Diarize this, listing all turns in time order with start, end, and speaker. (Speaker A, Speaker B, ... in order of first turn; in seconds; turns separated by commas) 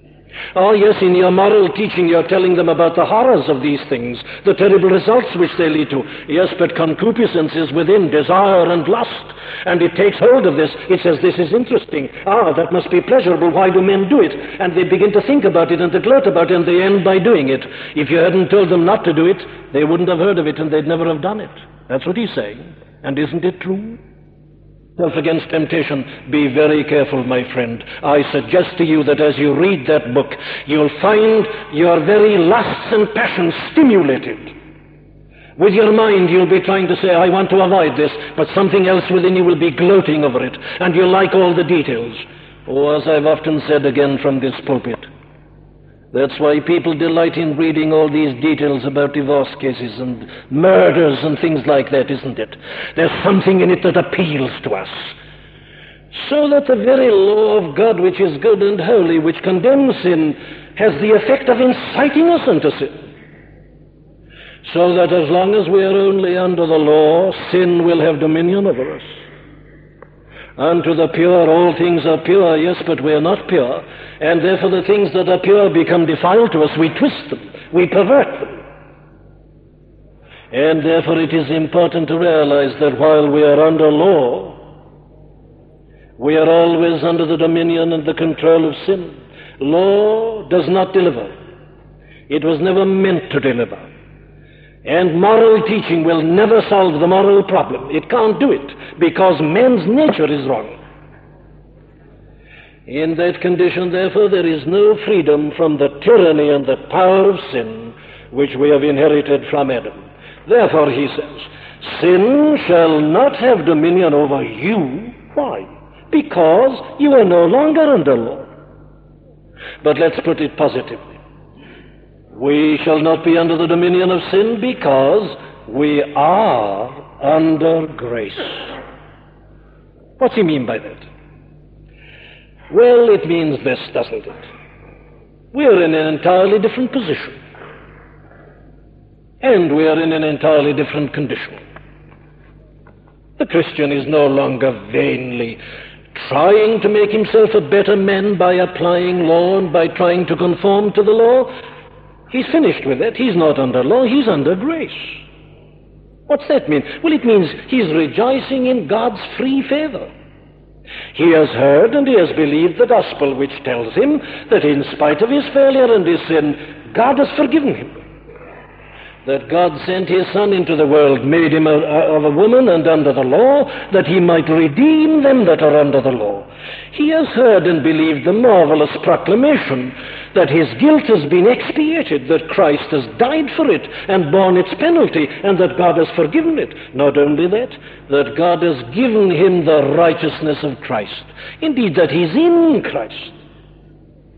Speaker A: 0.5-24.0, Speaker A: 25.0-34.5, Speaker A: 35.6-45.1, Speaker A: 46.1-55.1, Speaker A: 56.1-63.1, Speaker A: 64.6-69.2, Speaker A: 70.6-78.6, Speaker A: 80.5-84.6, Speaker A: 86.2-91.3, Speaker A: 92.3-93.9, Speaker A: 94.8-100.8, Speaker A: 102.9-118.5, Speaker A: 119.8-121.2, Speaker A: 122.3-128.7, Speaker A: 130.2-131.1, Speaker A: 132.7-134.4, Speaker A: 135.5-137.4, Speaker A: 139.4-141.6, Speaker A: 143.4-145.6, Speaker A: 146.1-151.5, Speaker A: 152.3-155.2, Speaker A: 156.3-160.1, Speaker A: 161.1-168.0, Speaker A: 169.2-193.4